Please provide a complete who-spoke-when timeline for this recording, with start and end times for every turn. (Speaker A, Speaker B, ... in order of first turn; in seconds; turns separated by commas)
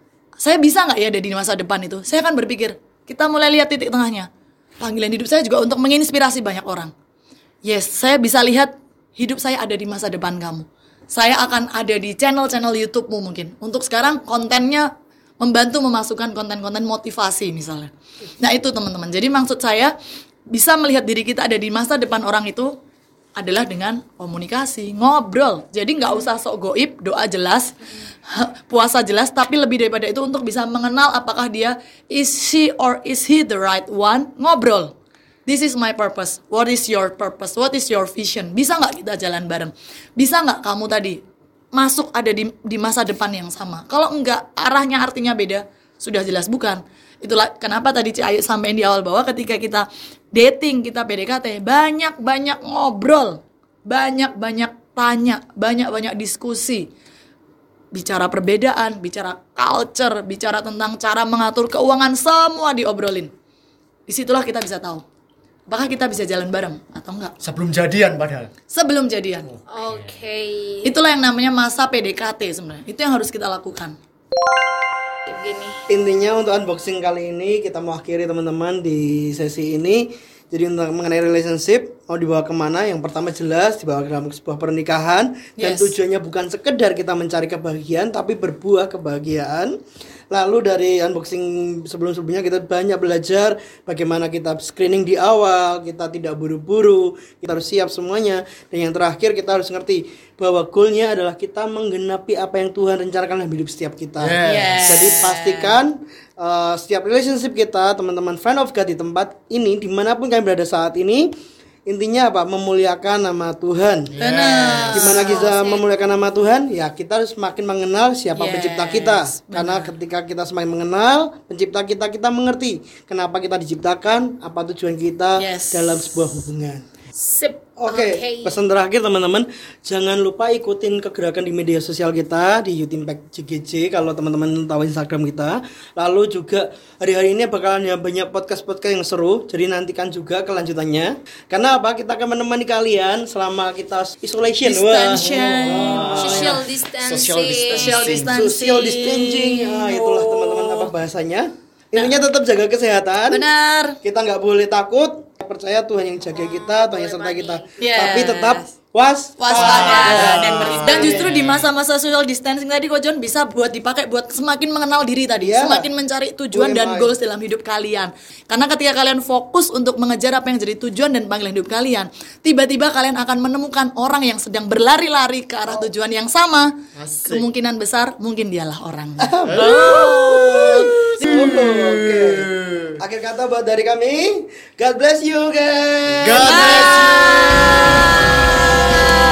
Speaker A: 0.4-4.3, Speaker A: 4.8-6.9, Speaker A: 7.6-14.9, Speaker A: 15.4-19.9, Speaker A: 20.5-22.7, Speaker A: 23.4-27.7, Speaker A: 28.3-34.9, Speaker A: 35.5-41.2, Speaker A: 41.7-56.9, Speaker A: 57.9-63.3, Speaker A: 64.1-65.0, Speaker A: 65.7-67.3, Speaker B: 67.4-68.5, Speaker A: 68.7-69.5, Speaker B: 69.5-70.2, Speaker C: 69.7-71.0, Speaker A: 70.8-73.9, Speaker C: 75.3-75.8, Speaker D: 75.9-89.7, Speaker A: 85.6-86.0, Speaker D: 90.3-111.3, Speaker B: 104.2-105.0, Speaker A: 104.4-105.7, Speaker D: 111.8-114.1, Speaker B: 114.1-115.2, Speaker A: 114.2-115.8, Speaker D: 114.9-126.8, Speaker A: 118.3-119.9, Speaker A: 125.4-126.3, Speaker C: 127.2-128.6, Speaker D: 127.8-146.6, Speaker A: 144.7-146.4, Speaker C: 144.9-148.1, Speaker B: 145.7-148.3, Speaker A: 147.7-150.9, Speaker D: 148.2-153.5, Speaker A: 151.9-152.2, Speaker A: 153.3-154.0, Speaker D: 154.0-161.4, Speaker C: 156.3-158.2, Speaker A: 157.8-158.7, Speaker A: 159.4-176.7, Speaker B: 159.5-161.7, Speaker D: 165.4-165.9, Speaker D: 166.5-167.1, Speaker B: 176.9-177.5, Speaker A: 177.2-181.3, Speaker D: 179.2-187.8, Speaker B: 179.5-183.0, Speaker B: 186.2-187.6, Speaker A: 186.3-187.9